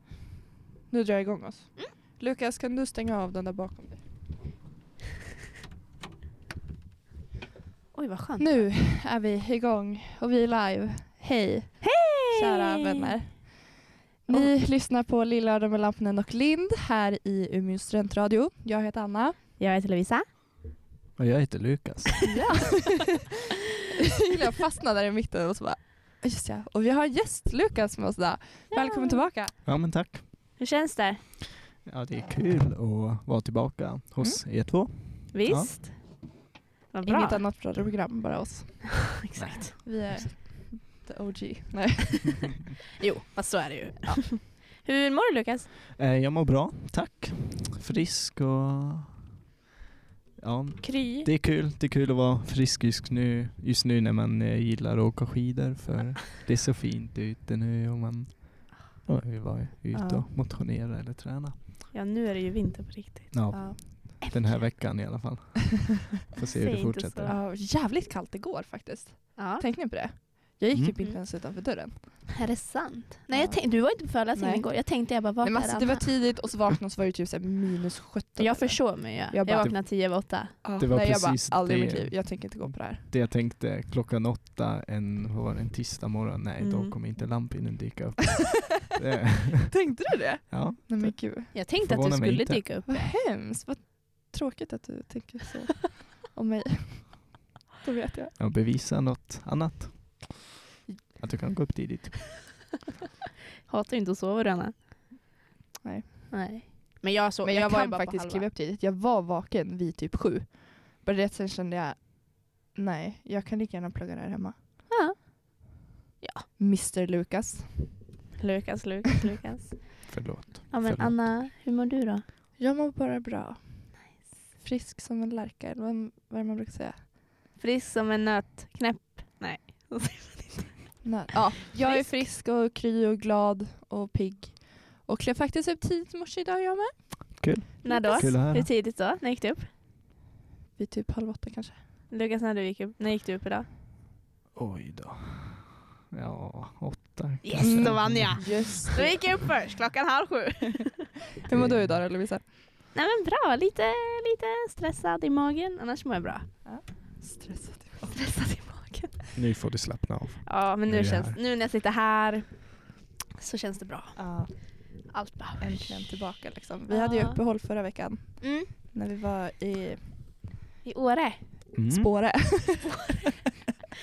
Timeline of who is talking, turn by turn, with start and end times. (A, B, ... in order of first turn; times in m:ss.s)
0:00.9-0:04.0 A
0:07.9-0:08.7 B
0:08.4-0:19.4 A
0:11.8-0:13.1 B
0:19.6-0:20.2 B
0:21.2-0:22.3 C
0:22.2-0:23.2 A
0:22.3-0:23.3 B
0:24.0-0:29.5 A
0:28.7-0:29.2 B
0:29.6-0:30.3 C
0:30.6-0:31.2 B
0:31.8-0:35.7 C
0:35.3-0:36.3 B
0:36.9-0:37.4 B
0:37.0-0:39.1 A
0:39.2-0:39.8 B
0:39.4-0:39.8 C
0:39.8-0:42.4 A
0:43.0-0:45.7 B
0:45.9-0:49.1 C
0:50.4-1:01.8 C
0:50.8-0:51.3 B
0:59.9-1:00.3 A
1:01.9-1:04.7 B
1:03.3-1:07.4 C
1:03.5-1:03.8 A
1:06.5-1:07.4 B
1:07.2-1:12.2 A
1:09.4-1:09.6 B
1:12.3-1:16.0 B
1:13.3-1:19.9 A
1:18.4-1:20.5 B
1:19.5-1:19.8 C
1:20.6-1:23.0 A
1:20.8-1:32.7 C
1:26.6-1:27.0 B
1:29.7-1:31.5 A
1:31.5-1:32.9 B
1:32.9-1:38.4 A
1:38.4-1:40.4 C
1:41.2-1:42.6 C
1:43.7-1:44.9 B
1:45.8-1:54.6 A
1:46.3-1:48.5 B
1:54.9-1:55.2 B
1:56.2-1:56.5 B
1:56.6-1:58.1 A
1:58.4-2:02.2 B
2:00.1-2:01.4 C
2:02.6-2:07.1 A
2:07.6-2:11.1 B
2:11.0-2:18.4 A
2:11.8-2:12.2 B
2:17.4-2:18.7 C
2:17.8-2:19.7 B
2:20.8-2:21.8 A
2:22.1-2:23.6 B
2:24.5-2:29.1 C
2:27.4-2:31.1 B
2:27.6-2:29.1 A
2:31.4-2:32.4 A
2:31.5-2:32.0 C
2:32.9-2:36.5 B
2:36.6-2:38.2 A
2:38.1-2:39.3 B
2:39.4-2:41.4 C
2:40.5-2:46.1 B
2:44.2-2:50.3 A
2:46.9-2:47.4 B
2:48.4-2:48.7 B
2:50.8-2:51.4 B
2:51.7-2:52.6 C
2:51.9-2:53.2 A